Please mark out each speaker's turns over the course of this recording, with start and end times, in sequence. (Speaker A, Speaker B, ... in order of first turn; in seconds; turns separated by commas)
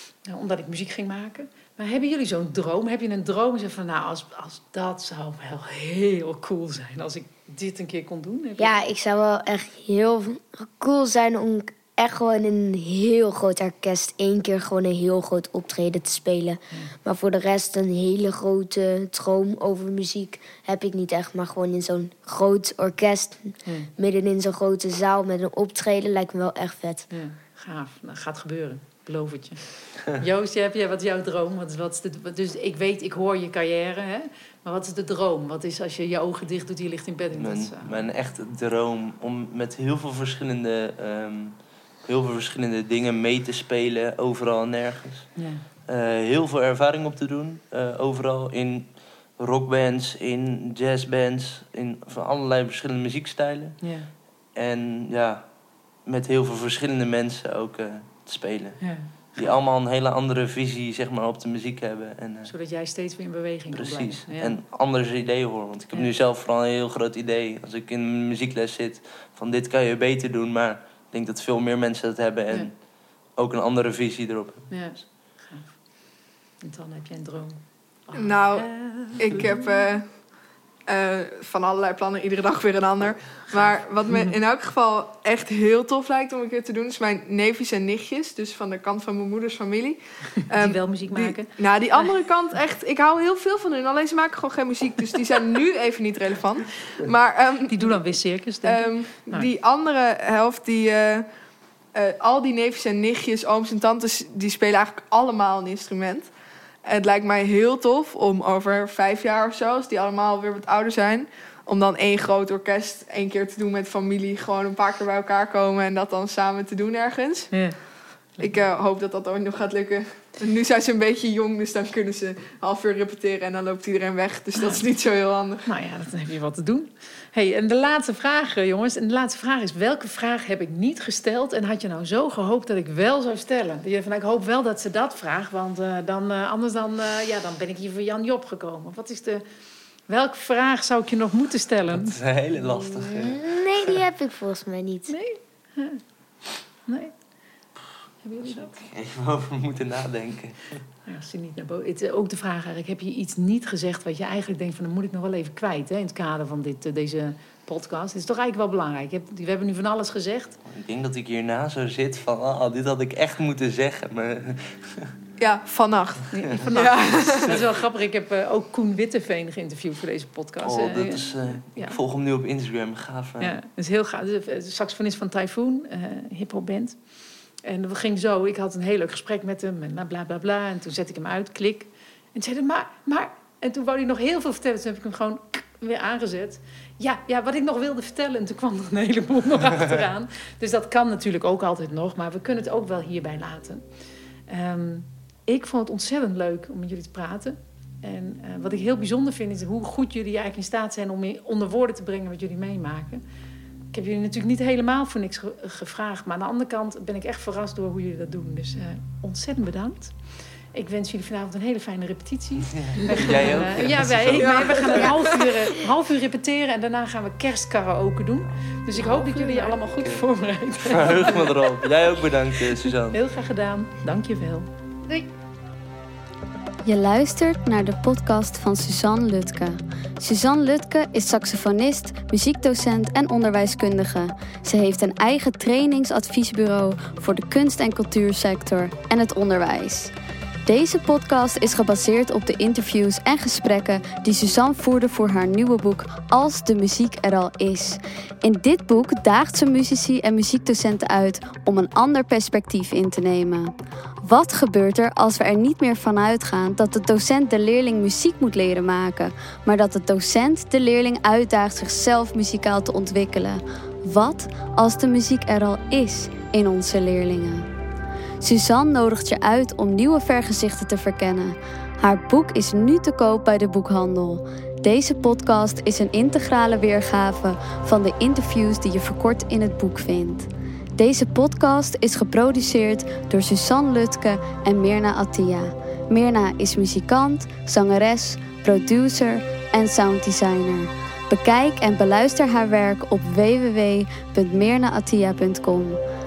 Speaker A: 0.3-8.7, Speaker B: 8.6-27.1, Speaker A: 27.1-38.0, Speaker C: 37.4-45.3, Speaker A: 45.4-45.6, Speaker C: 45.8-53.8, Speaker A: 53.8-54.1, Speaker C: 54.5-55.4, Speaker C: 56.0-62.5, Speaker A: 58.8-59.6, Speaker A: 62.5-64.6, Speaker C: 63.7-72.8, Speaker C: 73.3-74.7, Speaker A: 74.7-75.8, Speaker A: 76.6-79.7, Speaker D: 78.1-80.0, Speaker D: 80.9-98.0, Speaker A: 84.1-84.3, Speaker A: 90.4-92.1, Speaker A: 97.7-99.5, Speaker D: 98.6-101.2, Speaker D: 101.9-106.3, Speaker D: 106.8-117.6, Speaker A: 117.5-117.8, Speaker D: 118.4-125.7, Speaker A: 124.5-124.8, Speaker A: 125.7-139.4, Speaker A: 140.1-143.3, Speaker C: 141.9-143.6, Speaker B: 143.2-145.1, Speaker A: 145.1-146.0, Speaker A: 146.9-147.1, Speaker A: 148.2-148.9, Speaker C: 148.5-150.8, Speaker A: 151.1-160.6, Speaker C: 160.7-165.1, Speaker D: 165.4-167.6, Speaker A: 166.3-172.0, Speaker C: 170.6-173.6, Speaker A: 173.4-177.0, Speaker A: 177.6-193.8, Speaker A: 194.5-203.2, Speaker A: 203.9-210.2, Speaker A: 210.7-221.8, Speaker C: 212.6-215.1, Speaker D: 214.4-215.5, Speaker C: 220.0-220.2, Speaker C: 220.9-223.2, Speaker A: 222.8-224.7, Speaker E: 226.8-240.1, Speaker E: 240.7-267.6, Speaker E: 268.4-296.0